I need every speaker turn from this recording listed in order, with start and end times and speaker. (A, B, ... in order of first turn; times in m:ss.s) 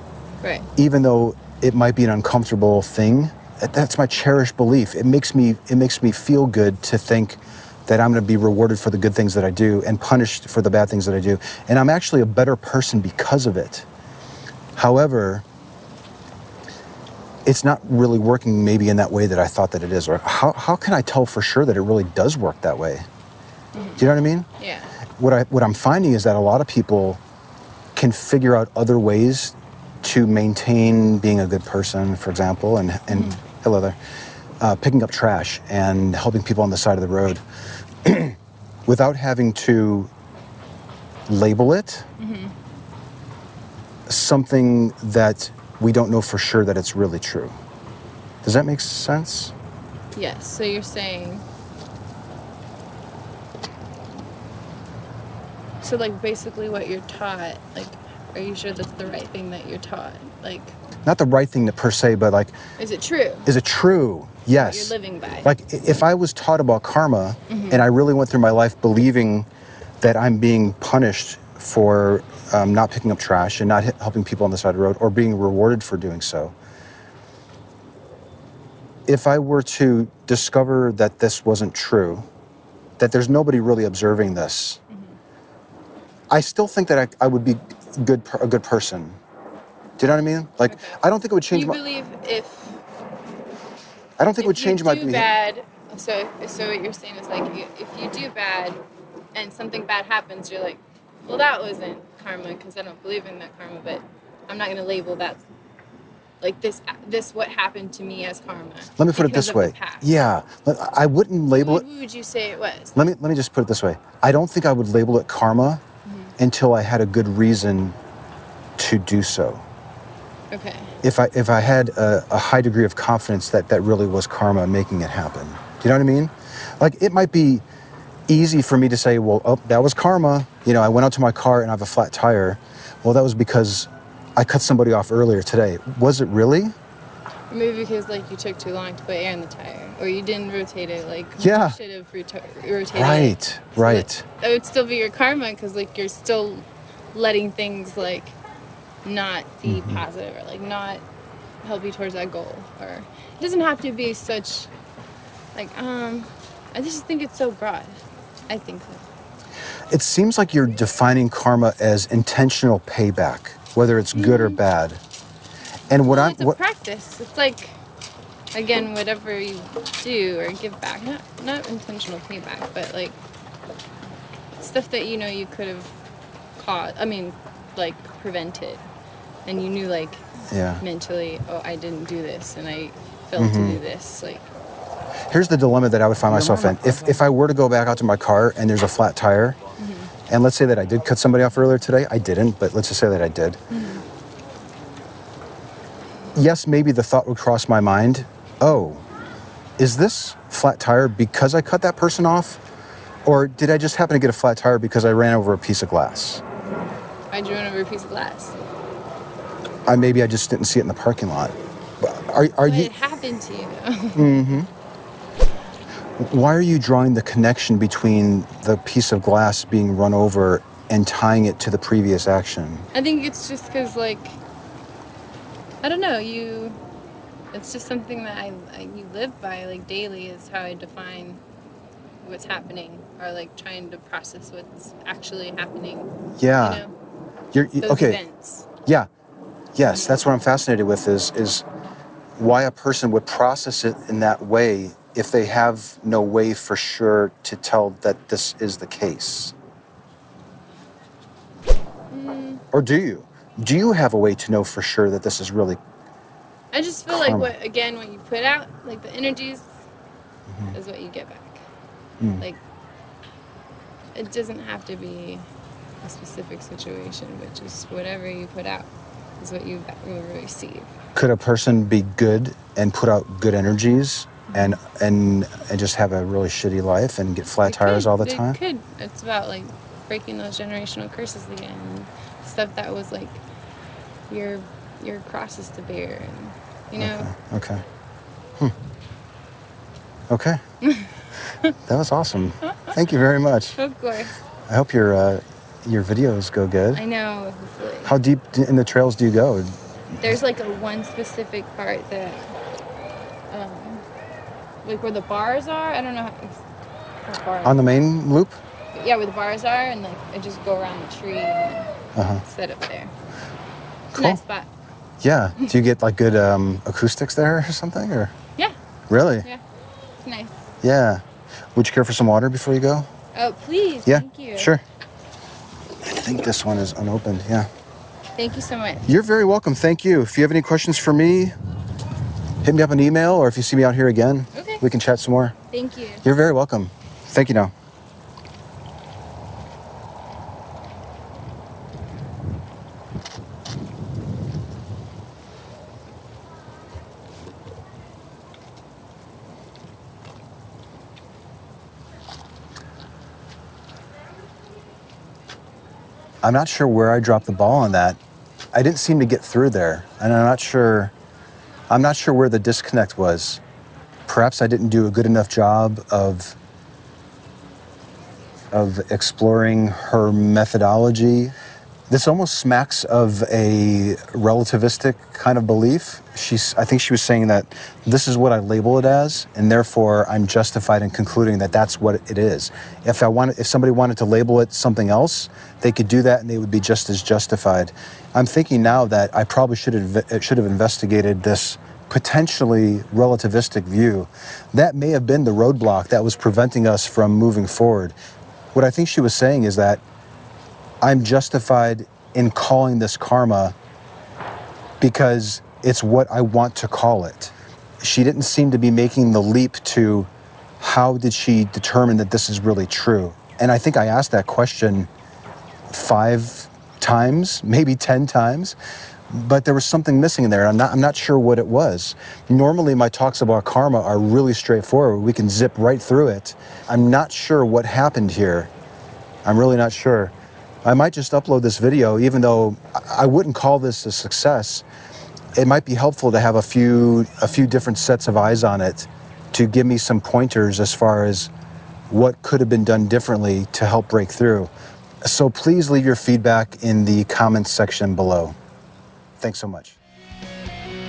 0:00.4-0:00.7 A
0:00.8-0:13.9 B
0:14.8-0:15.4 B
0:17.4-0:23.1 B
0:23.7-0:24.0 A
0:24.0-0:24.5 B
0:24.6-0:24.9 A
0:25.2-0:27.2 B
0:28.0-0:34.0 B
0:33.1-0:33.4 A
0:34.6-0:37.4 B
0:38.0-0:40.1 B
0:41.3-0:42.1 B
0:42.2-0:42.5 A
0:44.1-0:47.6 B
0:48.4-0:49.5 B
0:50.2-0:51.4 A
0:55.8-1:00.8 A
1:01.0-1:02.6 B
1:02.8-1:03.5 A
1:03.5-1:09.5 B
1:04.6-1:05.5 A
1:07.5-1:07.8 A
1:10.0-1:16.6 B
1:19.1-1:22.3 B
1:23.0-1:24.8 B
1:24.9-1:25.2 A
1:26.3-1:29.2 B
1:30.0-1:31.8 B
1:30.7-1:32.8 A
1:34.2-1:35.3 B
1:34.4-1:38.8 A
1:39.3-1:45.4 A
1:46.4-1:50.1 A
1:49.0-1:51.8 B
1:51.6-1:53.0 A
1:53.0-1:55.8 B
1:56.0-1:56.3 A
1:56.4-1:58.0 B
1:58.8-1:59.6 B
2:00.5-2:00.9 A
2:01.0-2:07.6 B
2:08.3-2:16.7 B
2:17.5-2:28.4 A
2:21.4-2:21.8 B
2:22.9-2:24.3 B
2:29.0-2:31.0 A
2:29.7-2:30.0 B
2:31.6-2:34.7 A
2:35.6-2:39.0 A
2:39.9-2:45.0 B
2:44.2-2:44.6 A
2:45.9-2:46.6 B
2:46.0-2:47.8 A
2:48.5-2:53.2 A
2:54.6-2:55.9 A
2:56.6-2:58.8 A
2:59.5-3:04.5 A
3:00.5-3:00.8 B
3:03.4-3:03.8 B
3:05.3-3:09.6 B
3:06.3-3:07.2 A
3:09.8-3:10.1 A
3:10.3-3:13.6 B
3:13.7-3:14.0 A
3:16.4-3:19.0 B
3:19.8-3:22.6 B
3:23.2-3:26.4 B
3:27.3-3:28.6 A
3:29.9-3:32.9 B
3:32.6-3:34.6 A
3:34.2-3:34.7 B
3:36.2-3:42.9 B
3:42.9-3:44.4 A
3:45.8-3:46.8 A
3:47.5-3:51.4 A
3:52.2-3:56.9 A
3:56.4-3:56.8 B
3:57.5-3:58.2 B
3:57.8-3:58.7 A
3:59.8-4:01.6 B
3:59.9-4:00.2 A
4:02.4-4:09.6 B
4:12.1-4:12.6 A
4:12.7-4:15.8 B
4:16.7-4:19.7 A
4:17.1-4:17.5 B
4:20.5-4:20.8 B
4:20.7-4:21.6 A
4:24.2-4:25.5 A
4:26.0-4:30.9 A
4:31.2-4:38.6 B
4:34.5-4:34.8 A
4:37.6-4:43.4 A
4:44.3-4:47.3 A
4:47.0-4:47.8 B
4:50.3-4:50.6 B
4:50.8-4:51.1 A
4:51.9-4:53.8 B
4:53.8-4:54.4 A
4:54.7-4:57.0 B
4:57.0-4:58.1 A
4:58.0-5:00.4 B
5:00.2-5:02.4 A
5:03.5-5:04.0 A
5:04.8-5:06.6 A
5:07.2-5:08.0 A
5:07.6-5:08.6 B
5:08.9-5:11.9 A
5:12.2-5:12.4 B
5:12.4-5:13.1 A
5:14.1-5:14.4 B
5:14.2-5:14.7 A
5:15.2-5:18.3 B
5:19.1-5:19.5 B
5:20.2-5:20.6 A
5:20.8-5:21.2 B
5:21.8-5:23.1 B
5:23.4-5:24.7 A
5:24.1-5:24.8 B
5:26.0-5:27.7 B
5:28.4-5:29.1 A
5:29.1-5:31.5 B
5:32.6-5:35.6 B
5:34.5-5:34.8 A
5:35.7-5:36.3 A
5:36.2-5:37.7 B
5:56.4-5:58.2 B
5:58.7-6:01.1 B
6:01.9-6:03.6 B
6:04.3-6:06.6 B
6:08.7-6:11.5 B
6:12.1-6:38.2 B
6:38.7-6:40.0 B
6:41.0-6:43.8 B
6:45.0-6:50.3 B
6:50.8-6:55.1 B
6:55.9-6:58.8 B
6:59.3-7:08.7 B
7:09.4-7:10.3 B
7:10.8-7:14.8 B
7:15.6-7:21.5 B
7:22.1-7:24.7 B
7:25.2-7:28.6 B
7:29.4-7:30.0 B